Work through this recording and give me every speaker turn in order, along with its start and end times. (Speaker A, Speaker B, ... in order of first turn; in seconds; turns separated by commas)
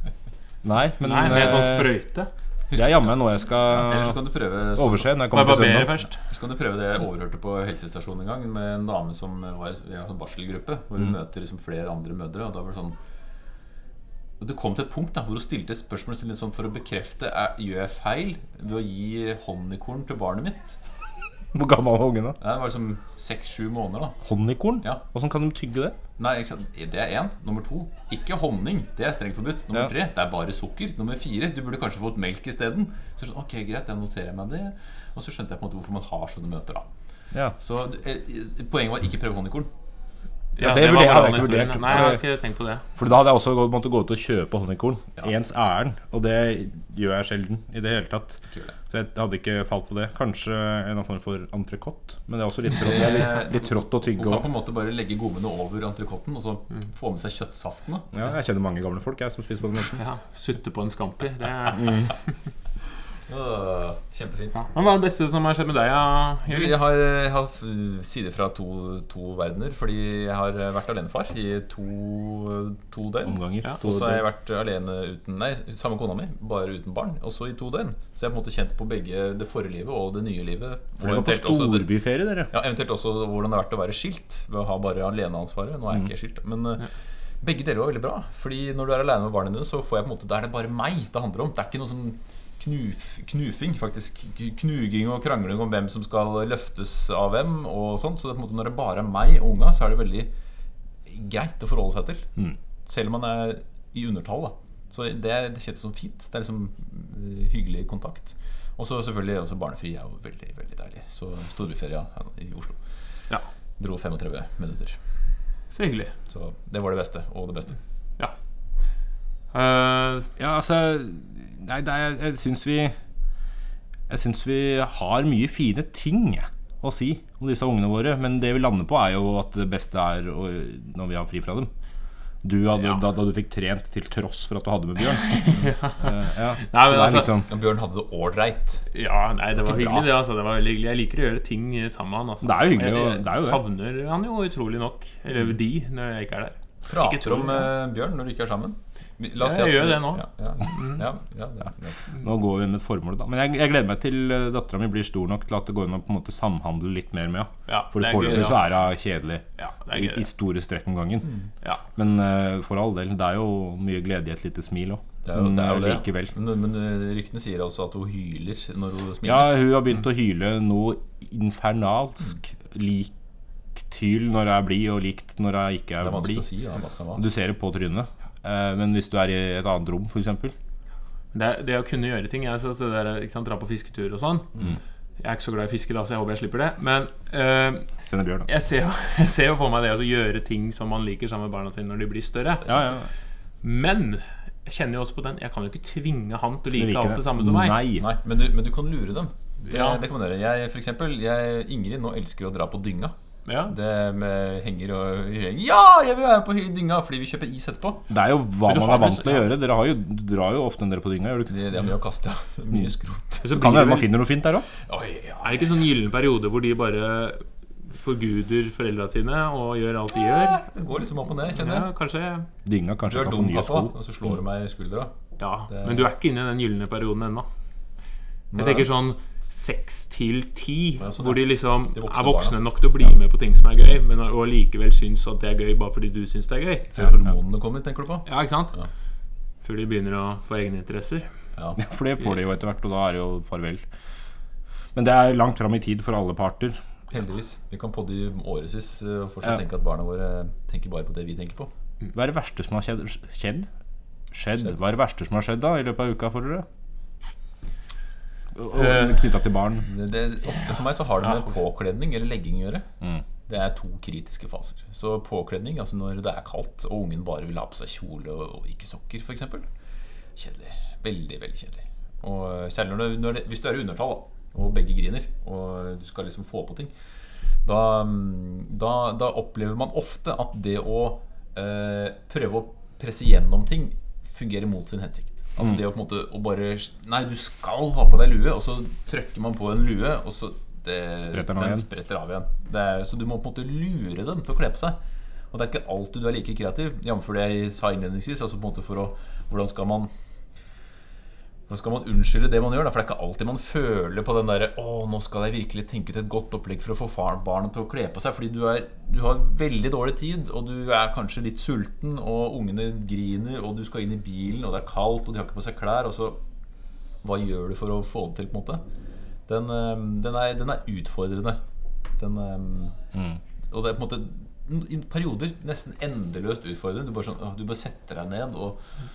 Speaker A: 0.6-1.9, Speaker B: 1.0-2.3, Speaker C: 2.7-5.2, Speaker A: 2.8-4.2, Speaker A: 4.7-6.0, Speaker B: 5.3-6.2, Speaker C: 6.3-13.0, Speaker C: 14.4-20.8, Speaker A: 21.5-22.4, Speaker C: 22.4-24.2, Speaker A: 24.2-26.0, Speaker C: 26.2-36.9, Speaker C: 37.6-39.7, Speaker B: 40.6-42.8, Speaker A: 40.6-42.2, Speaker A: 43.0-54.5, Speaker C: 52.8-58.1, Speaker A: 58.1-60.0, Speaker B: 60.0-62.1, Speaker A: 61.8-62.1, Speaker C: 63.3-64.7, Speaker B: 64.6-66.8, Speaker C: 66.5-81.9, Speaker A: 73.2-74.2, Speaker A: 81.0-82.5, Speaker C: 82.5-86.9, Speaker C: 87.4-100.3, Speaker C: 101.1-112.8, Speaker C: 113.8-115.0, Speaker B: 115.7-116.1, Speaker C: 116.3-117.8, Speaker B: 119.5-120.3, Speaker A: 120.4-122.9, Speaker A: 124.1-131.7, Speaker A: 132.4-137.5, Speaker B: 135.3-137.4, Speaker C: 137.5-138.9, Speaker B: 138.9-147.7, Speaker C: 139.6-140.1, Speaker A: 142.4-143.6, Speaker C: 146.9-152.0, Speaker B: 149.4-151.0, Speaker A: 152.2-161.3, Speaker B: 157.7-158.7, Speaker B: 159.6-160.2, Speaker A: 162.0-166.3, Speaker C: 165.2-169.6, Speaker A: 169.2-173.1, Speaker A: 173.8-176.5, Speaker C: 176.0-177.2, Speaker A: 177.2-180.6, Speaker B: 181.3-184.5, Speaker B: 185.2-187.9, Speaker A: 188.1-188.5, Speaker B: 188.5-192.9, Speaker A: 192.7-193.1, Speaker B: 193.6-197.8, Speaker A: 196.7-198.1, Speaker C: 198.0-203.2, Speaker B: 199.7-200.0, Speaker B: 203.4-203.7, Speaker C: 203.7-208.1, Speaker A: 208.1-211.6, Speaker B: 208.7-209.4, Speaker C: 211.5-213.8, Speaker B: 213.4-214.1, Speaker A: 213.4-214.7, Speaker C: 214.8-215.7, Speaker B: 215.4-220.6, Speaker C: 220.2-221.9, Speaker B: 221.6-222.5, Speaker A: 222.7-223.9, Speaker C: 223.1-225.1, Speaker B: 225.4-227.5, Speaker C: 225.7-226.1, Speaker C: 228.5-228.9, Speaker B: 228.6-236.9, Speaker C: 231.0-232.6, Speaker C: 236.9-238.9, Speaker B: 238.3-238.8, Speaker B: 239.6-241.3, Speaker A: 241.8-243.8, Speaker A: 244.9-246.8, Speaker C: 247.1-251.7, Speaker A: 252.1-253.7, Speaker A: 254.3-256.7, Speaker A: 258.6-259.9, Speaker C: 259.9-262.9, Speaker C: 263.5-269.7, Speaker C: 270.4-276.9, Speaker C: 277.6-295.0, Speaker A: 291.2-291.9, Speaker C: 295.5-300.1, Speaker C: 301.7-316.4, Speaker C: 317.2-318.8, Speaker C: 319.5-321.6, Speaker C: 322.2-323.0, Speaker C: 323.7-328.8